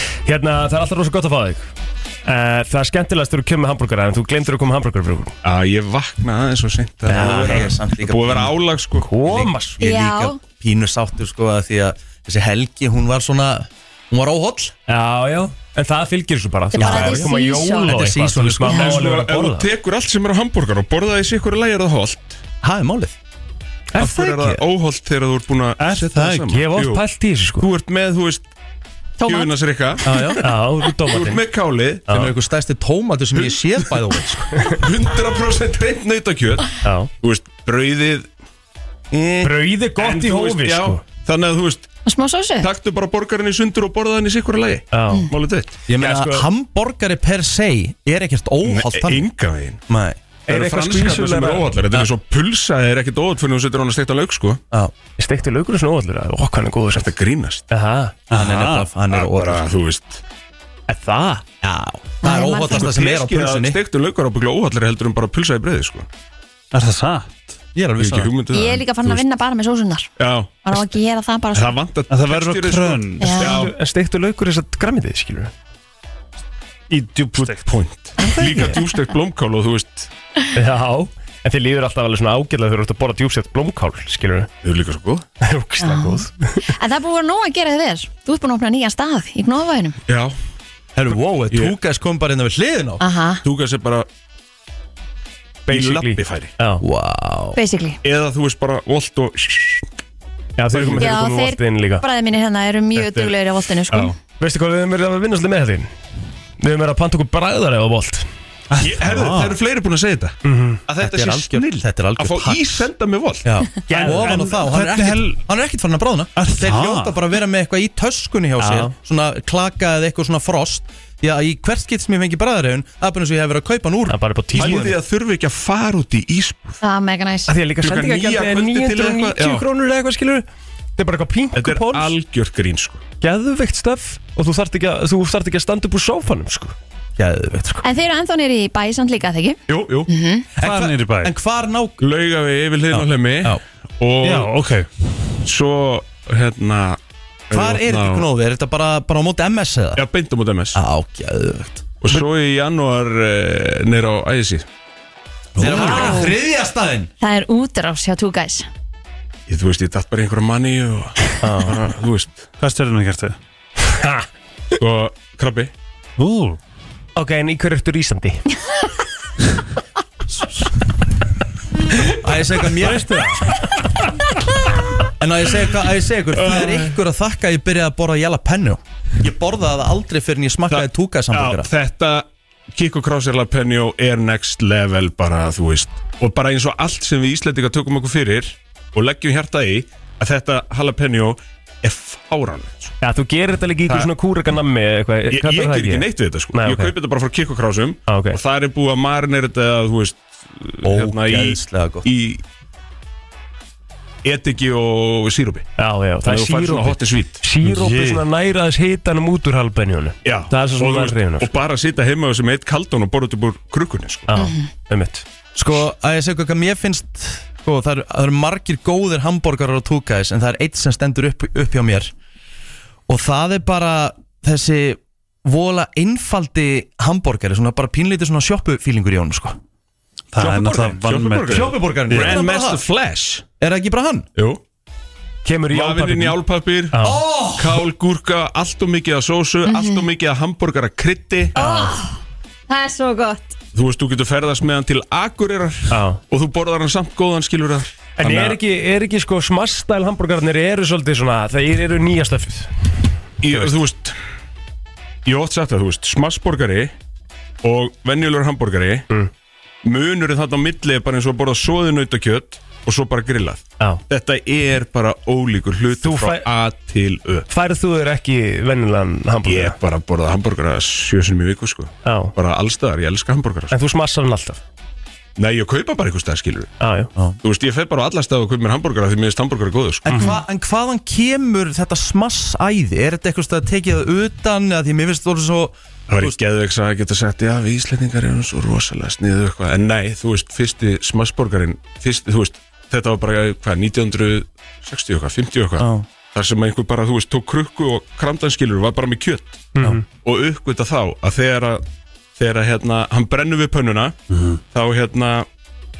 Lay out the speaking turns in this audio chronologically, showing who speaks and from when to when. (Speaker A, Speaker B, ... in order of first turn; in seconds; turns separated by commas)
Speaker A: 0.2-1.7, Speaker A: 2.2-5.3, Speaker B: 5.4-9.1, Speaker C: 7.0-8.5, Speaker A: 7.1-7.7, Speaker A: 9.0-9.8, Speaker C: 9.2-14.7, Speaker D: 9.8-10.4, Speaker A: 14.9-19.7, Speaker D: 16.7-17.9, Speaker C: 16.8-17.3, Speaker C: 17.8-19.1, Speaker B: 19.0-22.4, Speaker C: 22.6-23.1, Speaker A: 23.9-24.6, Speaker B: 24.0-27.0, Speaker E: 25.8-26.5, Speaker A: 26.5-27.7, Speaker B: 27.6-28.5, Speaker D: 29.2-29.5, Speaker B: 29.2-30.1, Speaker C: 30.0-30.5, Speaker A: 30.4-31.4, Speaker B: 31.0-32.1, Speaker A: 32.1-32.3, Speaker C: 32.1-34.6, Speaker B: 33.3-33.6, Speaker B: 34.7-38.3, Speaker A: 36.8-37.1, Speaker C: 39.1-39.5, Speaker A: 39.4-41.0, Speaker B: 40.0-41.9, Speaker D: 42.0-42.7, Speaker B: 42.6-45.8, Speaker A: 44.9-45.3, Speaker C: 45.9-49.3, Speaker A: 45.9-46.5, Speaker B: 48.6-49.8, Speaker C: 49.9-50.2, Speaker B: 50.5-54.6, Speaker A: 50.5-51.9, Speaker A: 55.2-57.1, Speaker B: 56.9-57.6, Speaker A: 57.7-58.1, Speaker E: 58.3-58.9, Speaker C: 58.3-59.7, Speaker B: 59.1-60.2, Speaker A: 60.9-61.4, Speaker C: 61.6-63.8, Speaker D: 62.2-62.9, Speaker B: 62.7-66.1, Speaker E: 66.7-67.5, Speaker C: 67.7-68.3, Speaker B: 68.0-69.2, Speaker D: 68.5-70.1, Speaker B: 70.2-70.8, Speaker D: 70.6-71.8, Speaker B: 71.5-73.7, Speaker E: 72.1-73.3, Speaker D: 73.2-73.6, Speaker A: 73.4-75.5, Speaker E: 76.9-77.7, Speaker B: 77.3-80.1, Speaker A: 78.5-78.7, Speaker A: 80.5-84.5, Speaker B: 84.6-85.2, Speaker A: 85.4-86.7, Speaker D: 85.8-90.0, Speaker B: 90.1-90.3, Speaker C: 91.0-93.0, Speaker B: 91.5-91.8, Speaker D: 93.0-93.4, Speaker B: 93.4-94.1, Speaker A: 95.7-96.8, Speaker B: 95.7-96.5, Speaker C: 96.8-97.6, Speaker D: 97.5-98.0, Speaker B: 98.0-99.9, Speaker A: 100.6-102.0, Speaker B: 100.7-101.1, Speaker D: 101.0-104.2, Speaker B: 103.9-104.2, Speaker A: 104.4-105.9, Speaker A: 106.6-108.3, Speaker E: 108.7-109.5, Speaker B: 108.8-113.5, Speaker A: 110.4-110.8, Speaker C: 111.0-112.9, Speaker C: 113.4-124.9, Speaker E: 113.9-115.4, Speaker E: 116.4-117.2, Speaker A: 118.6-118.9, Speaker A: 124.1-124.9, Speaker B: 124.5-126.8, Speaker D: 126.8-127.5, Speaker A: 127.5-130.4, Speaker B: 127.8-129.6, Speaker A: 131.0-132.1, Speaker B: 131.5-133.0, Speaker A: 133.2-136.7, Speaker C: 137.2-137.8, Speaker D: 137.8-140.5, Speaker B: 139.7-140.1, Speaker C: 140.6-142.0, Speaker E: 140.6-141.3, Speaker B: 142.0-144.5, Speaker C: 142.9-143.6, Speaker E: 144.2-144.9, Speaker B: 145.4-148.3, Speaker C: 147.5-150.0, Speaker B: 149.9-150.8, Speaker C: 150.7-152.2, Speaker B: 152.0-154.7, Speaker C: 155.6-157.1, Speaker E: 155.6-156.2, Speaker D: 155.7-156.3, Speaker B: 155.7-156.0, Speaker D: 157.2-158.7, Speaker B: 159.5-162.4, Speaker A: 161.4-161.7, Speaker E: 162.6-163.3, Speaker A: 163.9-164.2, Speaker B: 164.8-165.7, Speaker E: 166.2-166.6, Speaker A: 167.1-168.4, Speaker C: 172.1-173.4, Speaker E: 172.8-173.5, Speaker C: 175.2-181.7, Speaker B: 176.4-177.0, Speaker B: 180.7-193.0, Speaker A: 193.0-196.9, Speaker B: 195.3-202.4, Speaker A: 198.1-198.4, Speaker C: 200.8-202.1, Speaker B: 204.2-205.7, Speaker A: 205.8-211.6, Speaker B: 206.2-208.2, Speaker B: 210.2-214.3, Speaker A: 214.3-215.2, Speaker D: 214.3-214.7, Speaker C: 215.5-222.1, Speaker C: 223.1-229.6, Speaker E: 230.3-232.4, Speaker B: 230.4-233.4, Speaker C: 231.4-232.8, Speaker C: 233.6-234.3, Speaker B: 234.3-234.6, Speaker A: 235.4-236.4, Speaker B: 235.7-241.5, Speaker A: 236.9-237.2, Speaker C: 237.0-237.8, Speaker D: 239.7-240.1, Speaker D: 241.5-243.6, Speaker A: 241.6-241.9, Speaker B: 243.7-248.6, Speaker A: 245.9-246.2, Speaker A: 248.2-252.7, Speaker B: 253.4-254.2, Speaker A: 253.4-253.8, Speaker B: 255.2-256.9, Speaker B: 257.6-259.1, Speaker B: 259.8-267.5, Speaker A: 266.0-266.5, Speaker A: 267.5-269.8, Speaker B: 269.4-273.8, Speaker A: 272.0-272.3, Speaker A: 273.7-274.6, Speaker B: 275.4-276.7, Speaker A: 276.8-277.1, Speaker B: 277.4-280.1, Speaker C: 280.0-286.4, Speaker B: 286.1-301.8, Speaker C: 295.8-296.1, Speaker A: 299.7-300.0, Speaker B: 302.4-304.1, Speaker E: 304.3-304.6, Speaker B: 304.7-305.5